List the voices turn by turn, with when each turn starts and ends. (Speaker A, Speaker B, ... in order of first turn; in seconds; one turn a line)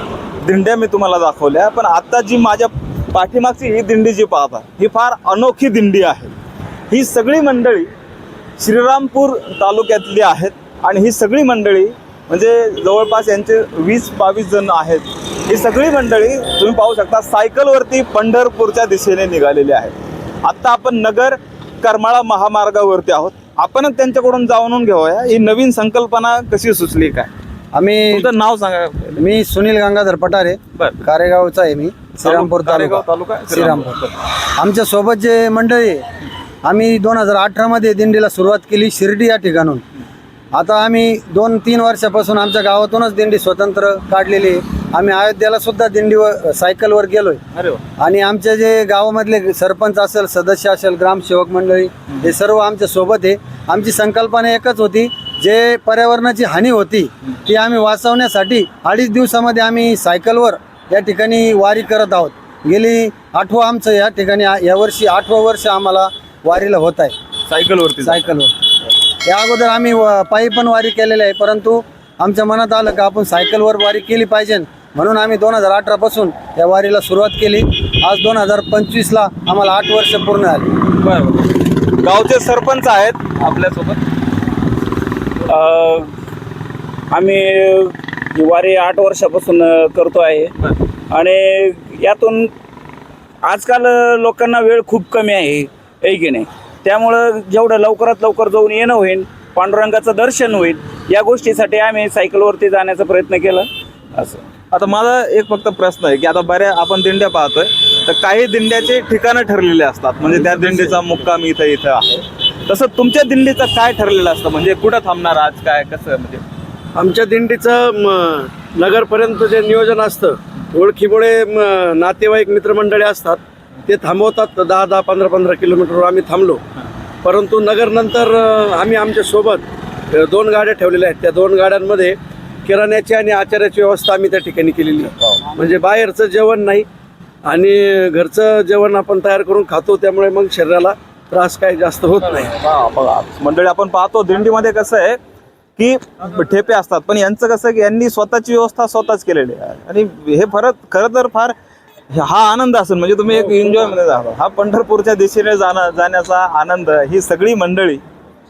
Speaker A: 0.4-6.3
Speaker A: 6.9-7.9
Speaker A: 8.6-19.9
Speaker A: 20.4-27.3
Speaker B: 27.7-28.3
Speaker A: 28.1-29.2
Speaker B: 29.2-34.0
Speaker A: 32.2-34.2
Speaker B: 34.6-36.0
Speaker B: 36.6-39.8
Speaker B: 40.5-47.4
Speaker A: 47.5-47.8
Speaker B: 48.0-67.1
Speaker A: 67.5-68.3
Speaker B: 68.0-68.5
Speaker B: 69.2-80.7
Speaker A: 80.9-84.0
Speaker C: 85.5-86.1
Speaker C: 87.1-90.5
Speaker C: 91.1-92.5
Speaker C: 93.4-104.4
Speaker A: 104.7-116.4
Speaker D: 117.0-126.6
Speaker D: 127.2-136.9
Speaker D: 137.4-142.5
Speaker A: 142.4-145.2
Speaker A: 145.8-151.5
Speaker A: 152.1-158.0